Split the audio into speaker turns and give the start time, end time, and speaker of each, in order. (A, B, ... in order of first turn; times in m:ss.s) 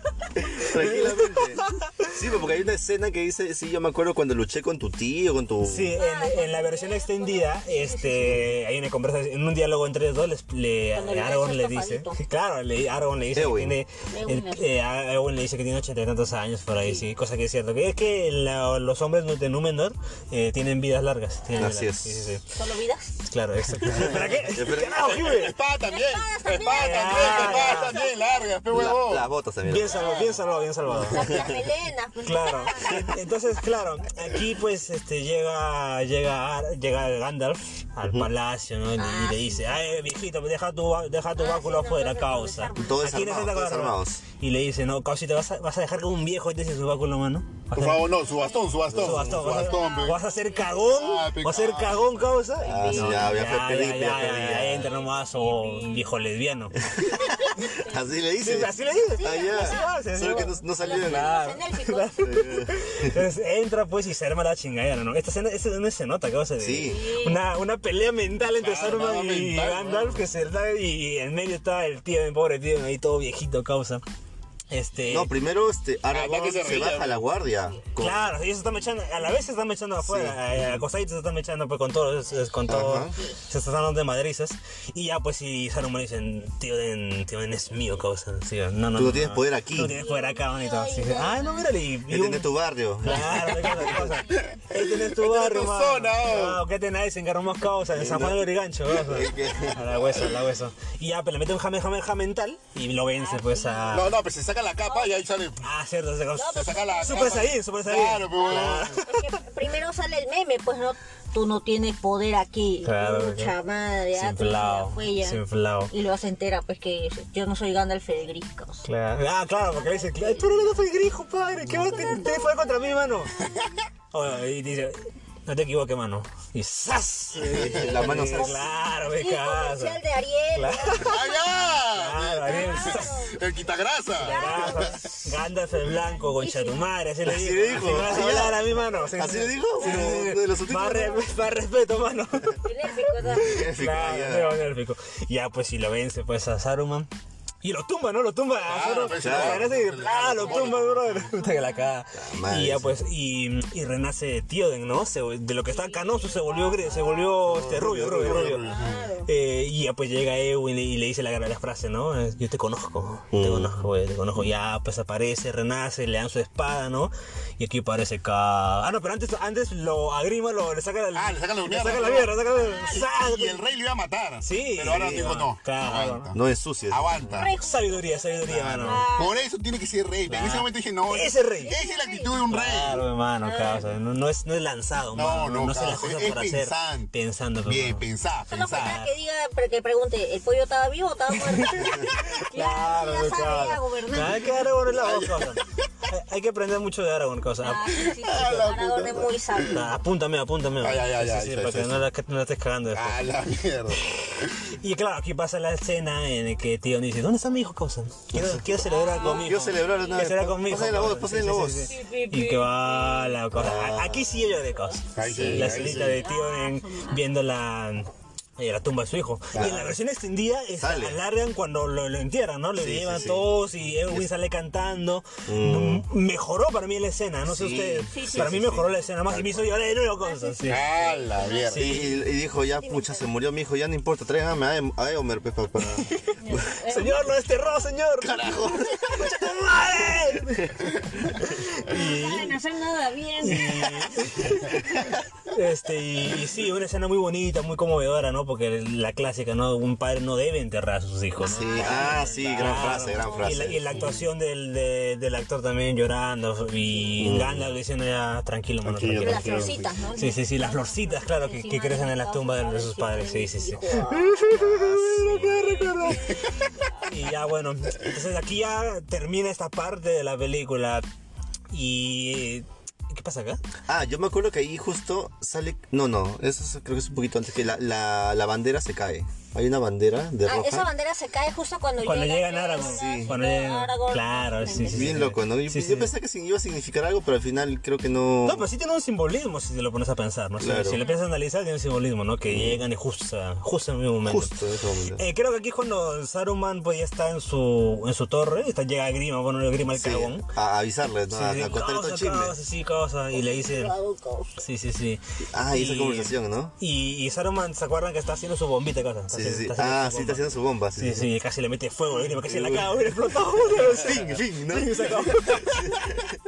0:00.4-0:06.0 A
0:00.6-0:02.1 B
0:05.6-0:22.4 B
0:06.0-0:08.4 C
0:10.9-0:12.2 C
0:13.3-0:13.8 A
0:14.1-0:14.7 C
0:21.6-0:22.4 A
0:22.5-0:23.2 C
0:23.3-0:25.6 B
0:23.9-0:25.2 A
0:24.8-0:29.3 D
0:25.8-0:28.5 C
0:26.7-0:28.0 B
0:28.7-0:30.2 A
0:29.6-0:31.4 B
0:29.8-0:33.2 C
0:30.9-0:31.4 D
0:31.3-0:31.6 A
0:32.2-0:48.1 B
0:39.0-0:39.8 C
0:41.4-0:43.0 C
0:42.7-0:44.2 A
0:47.7-0:50.2 D
0:48.3-0:50.7 C
0:48.9-0:49.2 A
0:48.9-0:56.8 B
0:50.8-0:52.2 D
0:52.6-0:53.4 C
0:52.6-0:54.9 A
0:54.7-0:56.1 C
0:56.8-1:01.4 A
0:57.1-0:58.0 C
0:58.4-1:14.0 B
0:59.0-1:02.4 C
1:02.2-1:03.2 A
1:06.6-1:07.0 A
1:06.8-1:07.4 C
1:08.6-1:10.2 D
1:14.7-1:15.3 B
1:15.1-1:18.3 A
1:16.1-1:17.2 D
1:18.0-1:44.2 B
1:20.0-1:20.8 A
1:22.7-1:23.2 A
1:28.9-1:30.0 A
1:29.9-1:31.7 C
1:32.1-1:34.0 A
1:33.5-1:36.6 D
1:37.9-1:39.9 A
1:39.4-1:40.3 D
1:43.2-1:44.1 C
1:43.9-1:45.6 D
1:44.8-1:45.2 C
1:45.6-1:49.3 B
1:46.4-1:47.5 C
1:46.5-1:49.0 D
1:48.3-1:58.8 C
1:52.8-1:53.5 B
1:54.1-1:55.9 B
1:58.8-2:03.3 B
1:59.7-2:00.7 C
2:01.7-2:03.0 C
2:03.4-2:03.7 D
2:04.1-2:10.0 B
2:07.3-2:08.6 A
2:07.6-2:11.4 C
2:10.5-2:11.2 B
2:11.0-2:15.0 D
2:11.9-2:13.2 B
2:12.5-2:13.4 C
2:14.2-2:15.2 C
2:14.2-2:27.1 B
2:16.2-2:16.9 C
2:17.2-2:21.2 A
2:19.8-2:20.1 C
2:22.6-2:23.6 C
2:23.3-2:24.6 A
2:27.6-2:38.6 B
2:28.6-2:31.3 D
2:29.2-2:29.7 A
2:30.4-2:30.8 C
2:31.3-2:31.8 C
2:32.2-2:33.0 A
2:35.6-2:37.4 C
2:37.4-2:38.6 A
2:37.8-2:39.1 D
2:38.6-2:39.3 C
2:39.2-2:53.6 B
2:43.3-2:43.8 A
2:51.1-2:57.5 D
2:52.6-2:53.0 C
2:54.4-2:56.3 B
2:54.9-2:55.3 A
2:56.3-2:57.5 A
2:57.3-2:59.4 C
2:57.6-2:59.1 B
2:58.5-3:03.0 D
3:00.3-3:01.7 B
3:01.6-3:02.3 C
3:02.5-3:08.0 B
3:03.4-3:03.9 C
3:05.1-3:07.1 D
3:07.6-3:09.0 D
3:08.5-3:14.6 C
3:08.6-3:09.1 B
3:11.3-3:18.7 B
3:14.9-3:15.6 D
3:17.6-3:19.9 C
3:18.0-3:19.8 D
3:19.6-3:23.2 B
3:20.8-3:21.9 D
3:22.9-3:24.5 D
3:24.0-3:50.9 B
3:28.3-3:31.9 A
3:28.7-3:30.2 C
3:31.9-3:33.4 C
3:33.5-3:34.4 A
3:35.1-3:36.2 D
3:35.2-3:36.2 A
3:36.0-3:37.2 C
3:39.5-3:39.8 D
3:39.5-3:39.9 A
3:40.8-3:41.2 A
3:42.8-3:44.3 A
3:45.4-3:46.1 A
3:47.4-3:49.7 A
3:48.1-3:48.6 C
3:50.2-3:53.3 C
3:50.7-3:51.9 D
3:51.7-3:52.2 B
3:51.8-3:56.7 A
3:56.0-4:02.5 B
3:56.4-3:57.6 C
3:58.2-3:59.5 A
4:00.6-4:00.9 A
4:01.9-4:04.2 C
4:03.4-4:26.4 B
4:11.4-4:13.8 C
4:11.4-4:14.1 A
4:11.7-4:13.3 D
4:13.8-4:14.2 D
4:17.2-4:17.7 A
4:18.8-4:19.9 D
4:19.2-4:27.0 C
4:27.0-4:31.0 B
4:31.7-4:33.6 B
4:33.9-4:40.9 A
4:40.4-4:45.2 C
4:42.0-4:46.1 B
4:42.8-4:43.3 A
4:44.8-4:48.7 A
4:48.4-4:54.5 B
4:50.6-4:51.0 A
4:50.9-4:51.2 C
4:52.5-4:52.8 A
4:54.2-4:55.2 A
4:55.1-5:00.4 B
4:59.9-5:02.5 A
5:01.3-5:03.9 B
5:03.3-5:04.6 C
5:04.6-5:16.0 B
5:05.5-5:06.7 A
5:09.3-5:11.3 A
5:12.4-5:13.0 A
5:13.7-5:16.4 A